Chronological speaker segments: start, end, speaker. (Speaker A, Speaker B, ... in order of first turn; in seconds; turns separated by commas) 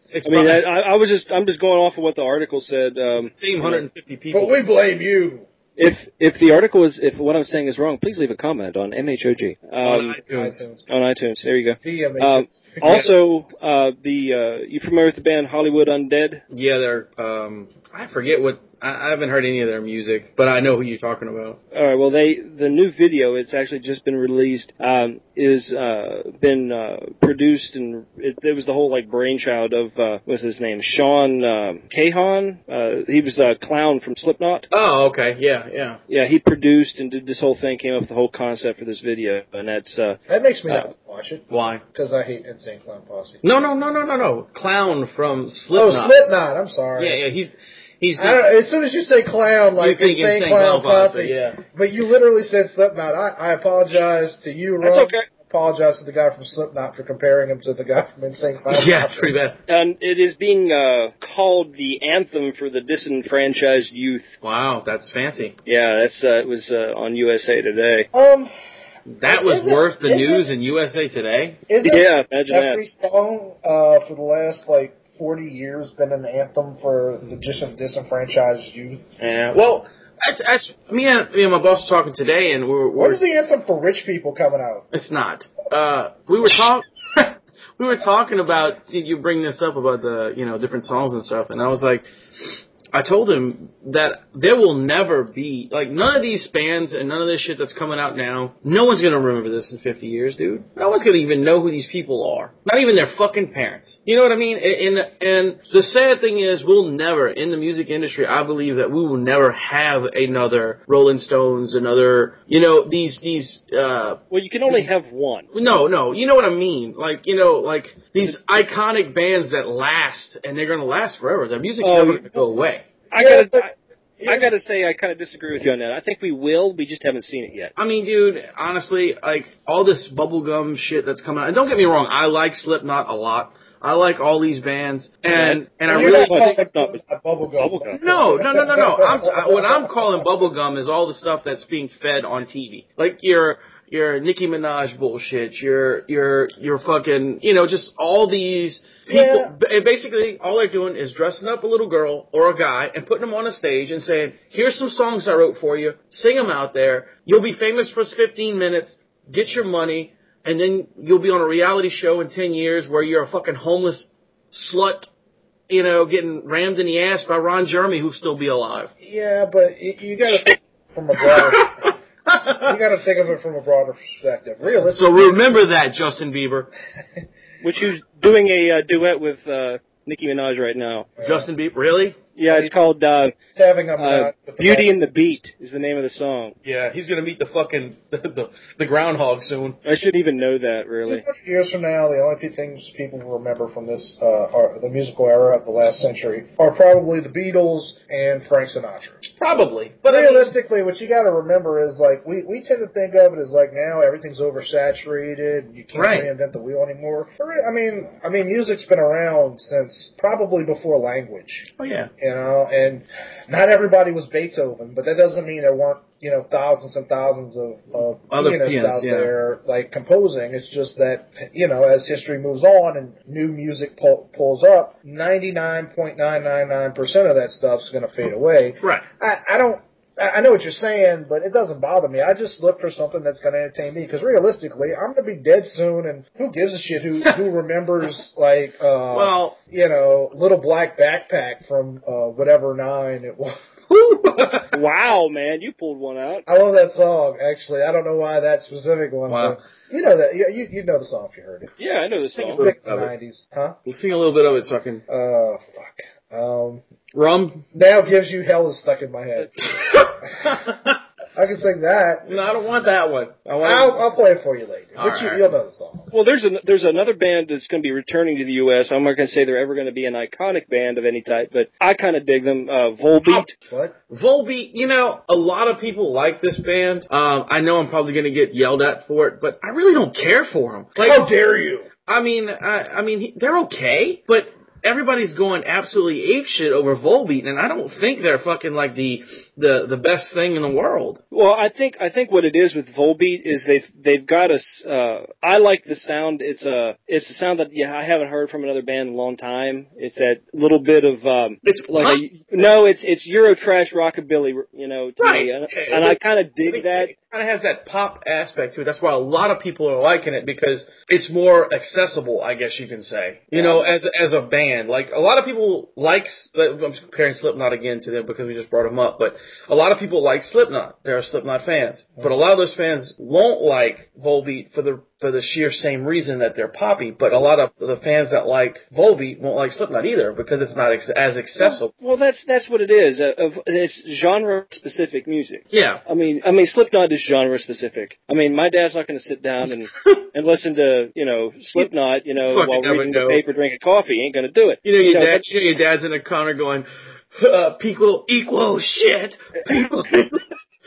Speaker A: 0.1-0.6, Speaker B: 0.2-3.8, Speaker A: 3.1-4.6, Speaker C: 4.3-5.5, Speaker B: 5.8-10.2, Speaker A: 9.8-10.6, Speaker C: 10.2-10.9, Speaker B: 10.9-16.4, Speaker C: 11.8-13.1, Speaker A: 16.5-21.6, Speaker B: 21.7-34.7, Speaker A: 34.7-36.0, Speaker B: 36.1-40.9, Speaker C: 40.3-43.4, Speaker A: 41.5-41.8, Speaker A: 43.4-46.1, Speaker C: 45.7-47.2, Speaker A: 47.0-48.4, Speaker C: 48.2-59.3, Speaker A: 49.8-51.6, Speaker B: 54.8-55.2, Speaker A: 58.7-59.6, Speaker B: 59.7-64.3, Speaker A: 64.4-65.5, Speaker B: 65.7-68.1, Speaker C: 68.1-68.5, Speaker A: 69.1-71.6, Speaker C: 69.2-70.5, Speaker C: 71.7-79.0, Speaker B: 71.8-72.8, Speaker A: 79.2-83.2, Speaker C: 83.0-84.8, Speaker A: 84.9-114.9, Speaker B: 114.3-115.5, Speaker A: 115.5-122.9, Speaker B: 121.8-122.4, Speaker B: 123.1-123.7, Speaker C: 123.2-123.6, Speaker B: 124.2-127.7, Speaker A: 127.8-136.5, Speaker B: 135.3-137.0, Speaker C: 135.9-140.3, Speaker B: 137.6-138.0, Speaker A: 137.9-165.1, Speaker C: 149.1-149.5, Speaker A: 165.7-168.9, Speaker C: 169.0-171.9, Speaker A: 171.2-172.7, Speaker C: 172.6-175.6, Speaker A: 174.8-176.7, Speaker B: 177.6-181.1, Speaker C: 181.2-181.5, Speaker A: 181.2-182.2, Speaker B: 182.3-183.3, Speaker C: 183.5-184.9, Speaker B: 184.0-186.6, Speaker A: 186.6-189.8, Speaker B: 189.8-191.2, Speaker C: 191.1-199.2, Speaker A: 199.3-200.5, Speaker C: 200.1-243.6, Speaker A: 205.9-206.3, Speaker A: 211.8-212.1, Speaker A: 218.3-219.3, Speaker A: 239.1-239.6, Speaker A: 243.9-244.7, Speaker B: 244.7-246.4, Speaker C: 246.5-251.7, Speaker A: 249.3-249.6, Speaker B: 251.8-252.6, Speaker A: 252.4-253.1, Speaker C: 252.5-253.8, Speaker A: 253.8-255.0, Speaker C: 255.1-256.8, Speaker A: 257.1-257.6, Speaker C: 257.7-259.6, Speaker A: 259.6-260.9, Speaker C: 261.4-262.4, Speaker A: 262.2-264.0, Speaker C: 263.6-266.1, Speaker A: 264.9-265.5, Speaker B: 266.1-273.5, Speaker C: 273.6-273.9, Speaker A: 274.1-281.2, Speaker C: 281.0-281.9, Speaker A: 282.1-291.2, Speaker B: 291.3-307.1, Speaker A: 301.6-302.2, Speaker A: 305.2-331.9, Speaker B: 313.5-313.9, Speaker B: 331.6-345.4, Speaker A: 335.7-336.0, Speaker A: 342.4-343.4, Speaker A: 344.8-350.4